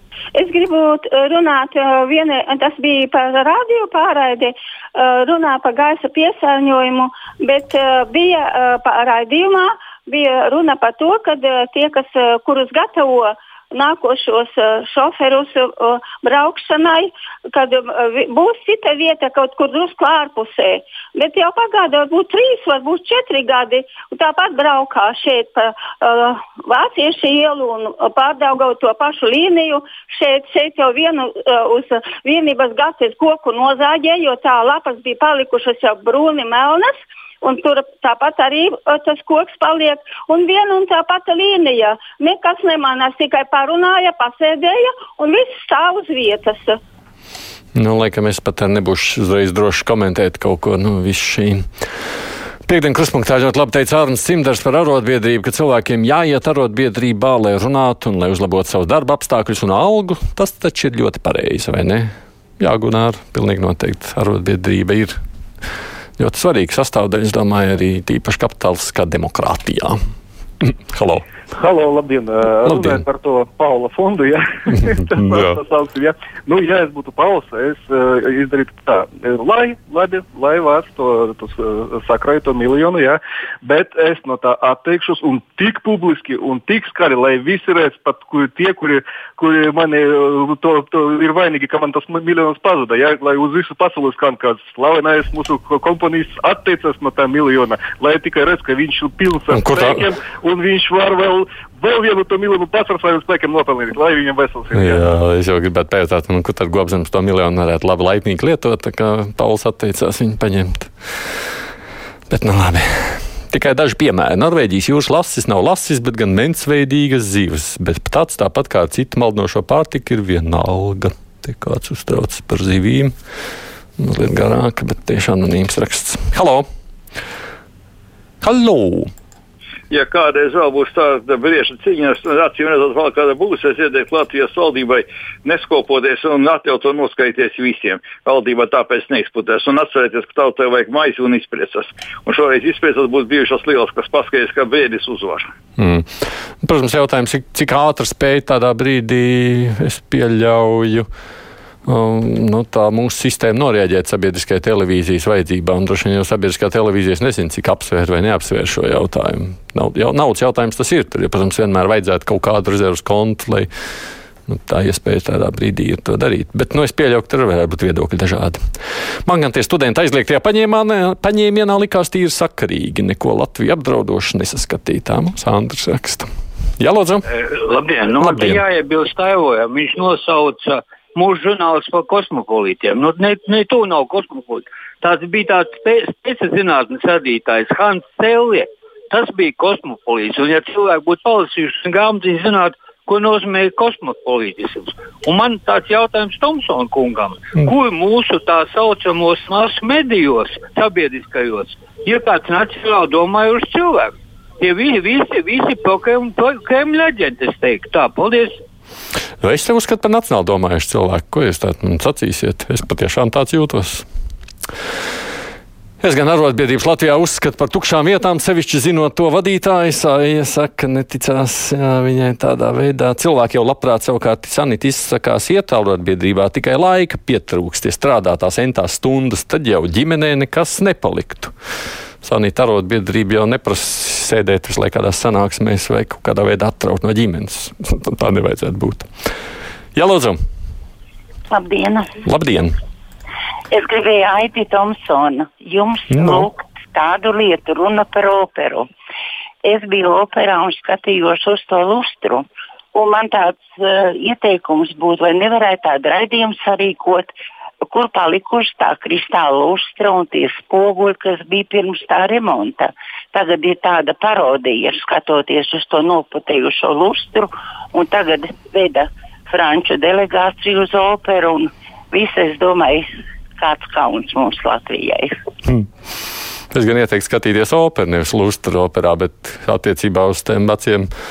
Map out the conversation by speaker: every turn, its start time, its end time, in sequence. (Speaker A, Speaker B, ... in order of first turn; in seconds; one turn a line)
Speaker A: 0.3-46.8
Speaker B: 47.8-51.6
Speaker B: 52.7-62.1
Speaker B: 62.6-65.1
Speaker B: 66.2-70.0
Speaker B: 70.6-71.2
Speaker C: 71.5-105.0
Speaker B: 72.6-73.0
Speaker B: 75.1-75.5
Speaker B: 99.5-100.0
Speaker B: 104.7-110.9
Speaker B: 112.3-123.1
Speaker B: 124.0-126.6
Speaker B: 128.4-129.1
Speaker D: 129.9-145.5
Speaker B: 145.8-146.1
Speaker B: 146.6-151.1
Speaker B: 151.9-163.7
Speaker B: 164.5-168.6
Speaker B: 169.2-176.2
Speaker B: 176.8-177.2
Speaker E: 177.4-208.6
Speaker B: 178.1-178.6
Speaker B: 209.4-214.1
Speaker B: 216.0-231.5
Speaker B: 232.2-239.1
Speaker B: 239.9-240.4
Speaker F: 241.5-242.1
Speaker B: 242.2-242.7
Speaker F: 243.7-248.9
Speaker B: 246.1-246.5
Speaker F: 249.6-257.3
Speaker F: 257.9-273.1
Speaker F: 273.6-275.4
Speaker B: 276.7-281.1